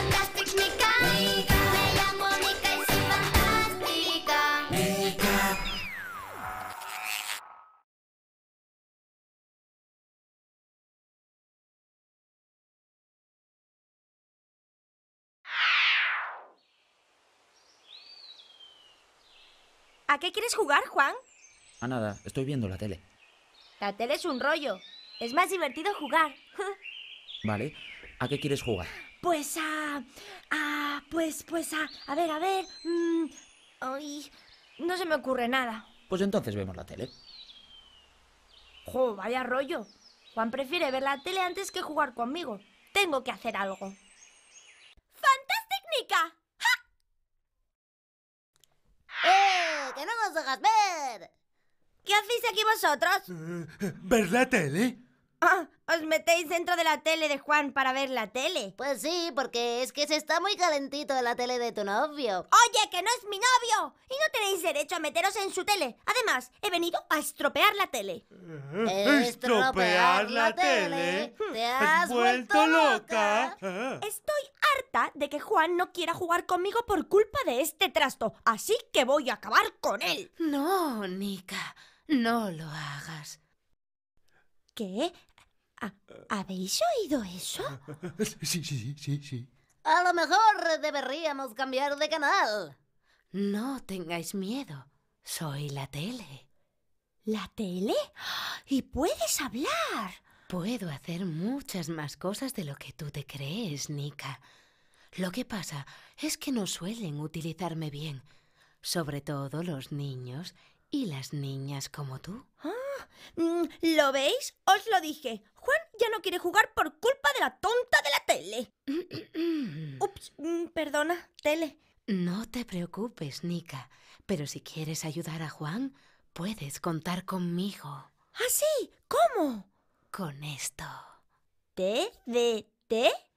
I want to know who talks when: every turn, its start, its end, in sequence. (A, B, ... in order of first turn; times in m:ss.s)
0:00.2-0:00.9 A
0:01.5-0:04.0 A
0:20.1-0:21.2 A
0:21.8-0:23.0 B
0:23.8-0:26.4 A
0:27.4-0:28.9 B
0:29.2-0:35.9 A
0:36.1-0:37.1 B
0:38.8-0:44.0 A
0:45.2-0:46.7 A
0:49.2-0:51.3 C
0:52.0-0:53.3 A
0:53.5-0:55.0 D
0:55.4-0:58.8 A
0:58.8-1:02.5 C
1:02.5-1:08.2 A
1:08.8-1:14.0 D
1:08.8-1:13.6 C
1:14.0-1:20.3 A
1:20.4-1:23.4 E
1:24.8-1:25.1 A
1:25.8-1:27.8 A
1:28.2-1:29.5 D
1:29.8-1:32.8 C
1:33.3-1:36.4 E
1:37.3-1:40.2 A
1:40.5-1:44.4 E
1:45.2-1:48.2 E
1:48.8-1:52.5 E
1:52.6-1:58.7 A
1:58.9-2:00.0 E
2:00.0-2:01.8 A
2:02.1-2:08.1 E
2:08.4-2:09.7 A
2:10.1-2:11.1 E
2:11.8-2:13.1 A